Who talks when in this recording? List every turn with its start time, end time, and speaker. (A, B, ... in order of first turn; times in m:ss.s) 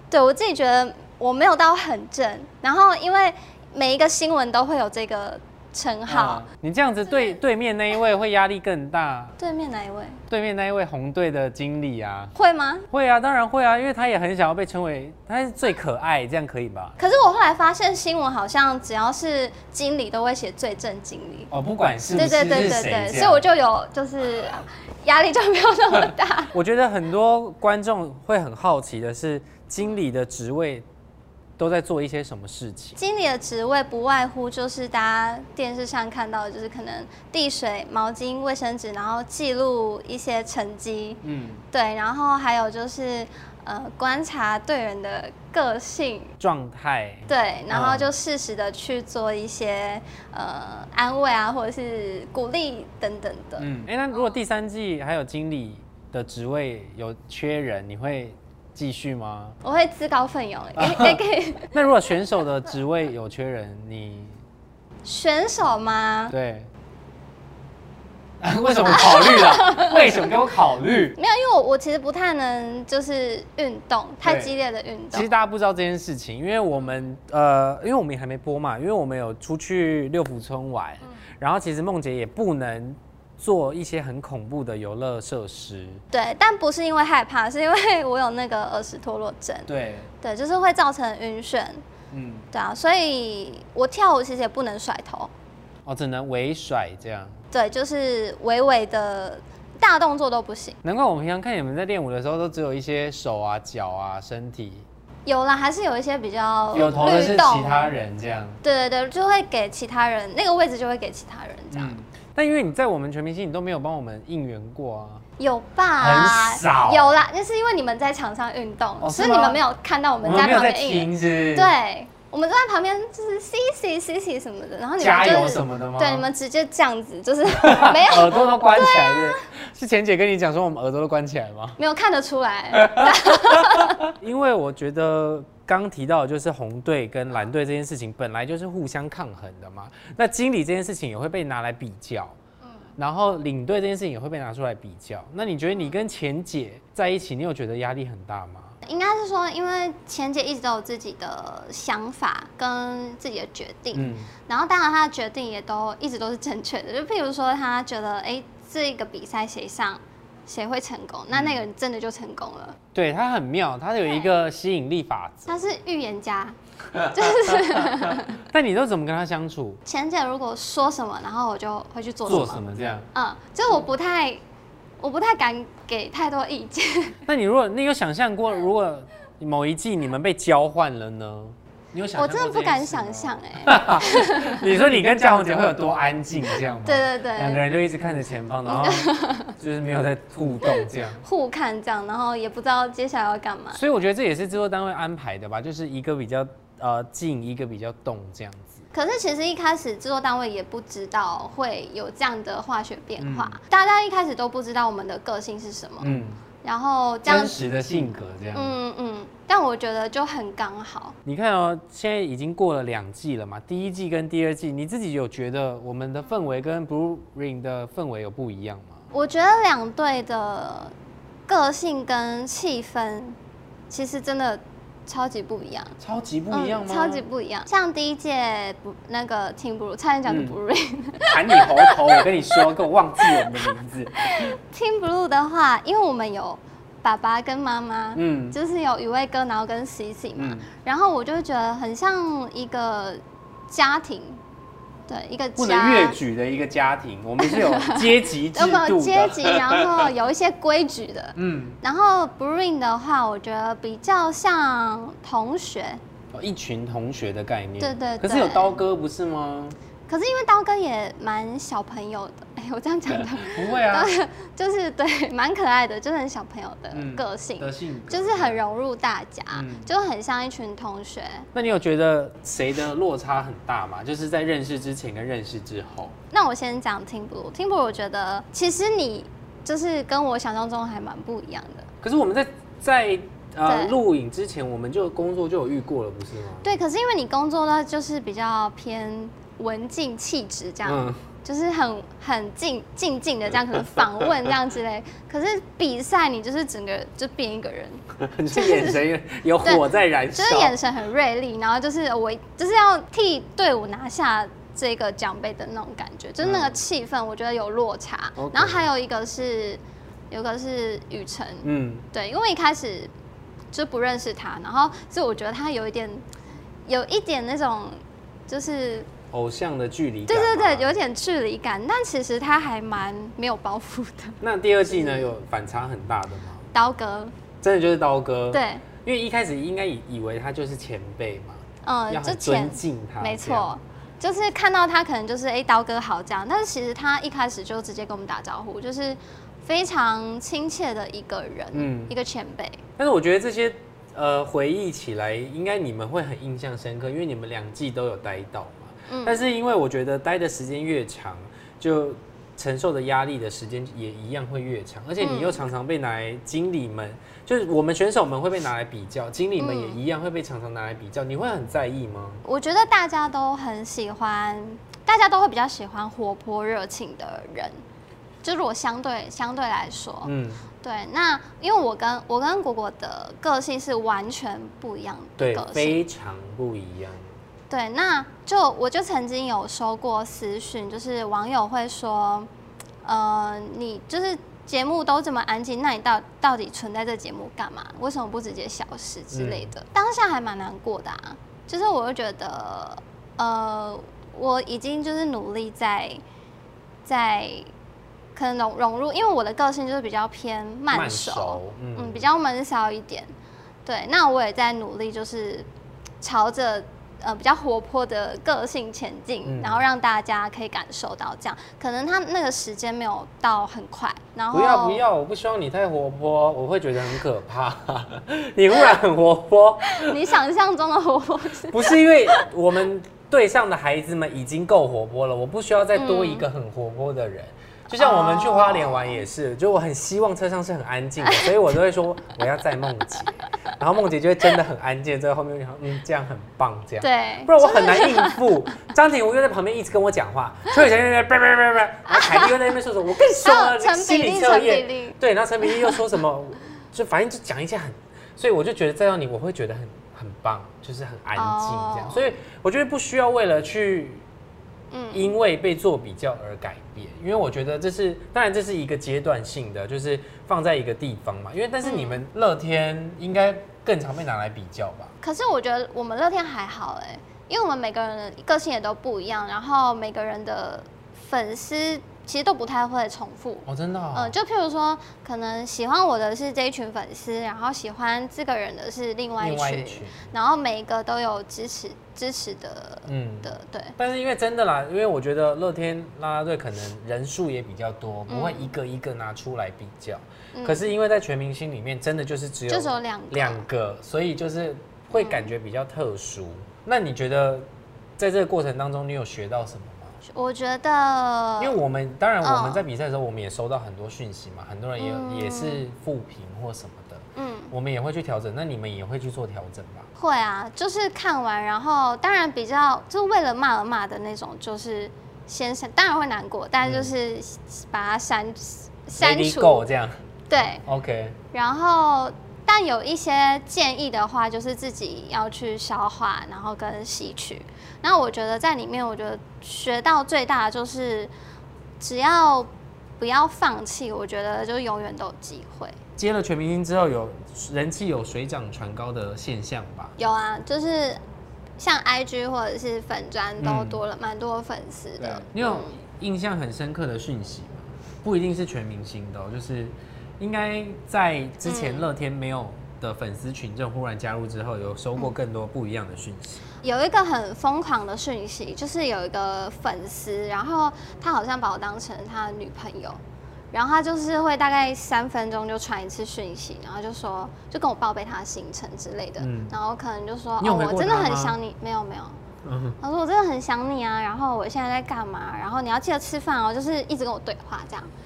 0:00.1-0:06.4 A
0:06.1-0:09.4 B
0:09.4-0:10.2 A
0:10.3-0:12.3 B
0:12.3-0:12.9 A
0:12.9-0:17.0 B
0:17.0-0:21.5 A
0:21.5-0:23.4 B
0:22.1-0:26.5 A
0:26.5-0:30.8 B
0:31.6-0:33.0 B
0:33.0-0:46.3 A
0:41.2-0:41.6 B
0:46.4-0:48.1 B
0:47.3-0:53.7 A
0:53.6-0:59.6 B
0:59.6-1:01.7 A
1:00.8-1:04.4 B
1:05.0-1:06.3 A
1:06.3-1:06.7 B
1:08.4-1:11.1 B
1:08.9-1:09.9 A
1:11.2-1:15.3 A
1:14.2-1:14.5 B
1:15.1-1:26.0 B
1:26.1-1:29.7 A
1:29.7-1:30.1 B
1:30.2-1:31.8 A
1:32.1-1:32.5 B
1:32.5-1:35.3 A
1:35.8-1:37.4 B
1:37.5-1:40.8 A
1:40.8-1:44.9 B
1:45.2-1:47.9 A
1:46.7-1:48.6 B
1:48.6-1:51.9 A
1:51.7-1:55.2 B
1:55.4-2:09.4 A
1:56.0-1:57.1 B
1:59.0-1:59.6 B
2:00.2-2:01.7 B
2:05.0-2:06.3 B
2:07.5-2:11.8 B
2:11.8-2:14.0 A
2:12.8-2:13.4 B
2:14.0-2:22.4 B
2:23.0-2:28.8 B
2:28.8-2:42.8 A
2:33.9-2:34.3 B
2:41.3-2:41.6 B
2:42.9-2:45.5 B
2:45.5-2:46.6 A
2:47.0-2:49.8 B
2:47.1-2:48.4 A
2:49.8-2:54.4 A
2:52.2-2:53.1 B
2:55.0-2:57.2 A
2:57.2-3:11.2 B
3:02.1-3:04.7 A
3:06.8-3:07.6 A
3:08.6-3:09.5 A
3:10.6-3:13.8 A
3:13.7-3:18.8 B
3:18.9-3:27.6 A
3:23.2-3:23.6 B
3:26.0-3:26.4 B
3:27.2-3:28.8 B
3:28.5-3:31.2 A
3:31.2-3:39.0 B
3:39.1-3:40.9 A
3:41.5-3:43.4 A
3:43.9-3:46.0 A
3:46.0-3:47.2 B
3:46.5-3:52.6 A
3:50.2-3:50.6 B
3:51.2-3:54.5 B
3:53.2-4:04.4 A
3:58.2-3:58.6 B
4:00.4-4:00.7 B
4:05.1-4:06.2 A
4:05.6-4:10.1 B
4:07.4-4:16.0 A
4:11.4-4:11.8 B
4:16.3-4:19.8 B
4:17.8-4:18.8 A
4:20.1-4:31.5 A
4:23.1-4:24.1 B
4:26.9-4:28.6 B
4:29.5-4:29.9 B
4:31.5-4:36.1 B
4:36.3-4:41.9 A
4:42.0-4:46.7 B
4:43.6-4:44.0 A
4:46.6-4:59.0 A
4:50.8-4:51.2 B
4:58.1-5:00.8 B
4:59.6-5:13.1 A
5:06.4-5:06.8 B
5:08.4-5:08.9 B
5:11.6-5:12.0 B
5:13.7-5:16.2 A
5:16.8-5:19.1 A
5:19.3-5:21.0 B
5:20.3-5:25.3 A
5:24.4-5:26.6 B
5:26.7-5:27.3 A
5:27.6-5:33.7 B
5:28.5-5:28.8 A
5:31.8-5:42.8 A
5:41.7-5:42.1 B
5:43.0-6:02.4 B
5:49.1-5:49.4 A
5:55.2-5:55.6 A
5:59.6-6:00.0 A
6:02.4-6:07.8 A
6:08.4-6:16.0 A
6:10.2-6:10.7 B
6:15.4-6:17.3 B
6:17.7-6:22.5 A
6:23.0-6:36.2 A
6:29.3-6:29.7 B
6:37.0-6:37.7 A
6:38.4-6:43.3 A
6:40.9-6:42.2 B
6:43.8-6:45.7 A
6:46.2-6:55.0 A
6:49.4-6:49.8 B
6:54.5-7:00.2 B
6:59.9-7:02.4 A
7:01.7-7:34.2 B
7:05.9-7:06.4 A
7:08.0-7:09.2 A
7:11.2-7:11.5 A
7:17.0-7:18.6 A
7:22.0-7:25.8 A
7:31.3-7:32.4 A
7:34.9-7:35.3 A
7:35.1-7:45.1 B
7:41.8-7:42.2 A
7:45.2-8:04.0 A
7:53.6-7:54.3 B
7:59.4-8:00.3 B
8:03.1-8:20.1 B
8:08.3-8:08.7 A
8:10.5-8:10.9 A
8:12.7-8:13.6 A
8:15.1-8:15.5 A
8:20.3-8:21.8 A
8:21.6-8:30.1 B
8:22.4-8:22.8 A
8:25.0-8:25.8 A
8:27.4-8:27.7 A
8:30.2-8:39.8 A
8:36.8-8:37.1 B
8:39.1-8:40.2 B
8:40.5-8:40.8 A
8:40.8-8:41.4 B
8:41.5-8:51.3 A
8:52.0-8:56.0 A
8:56.2-9:00.1 B
9:00.2-9:01.2 A
9:01.8-9:05.9 A
9:03.6-9:04.0 B
9:05.2-9:16.6 B
9:11.6-9:12.1 A
9:16.8-9:23.2 A
9:23.7-9:32.4 A
9:29.4-9:29.7 B
9:30.6-9:31.6 B
9:32.6-9:33.0 B
9:33.0-9:38.1 A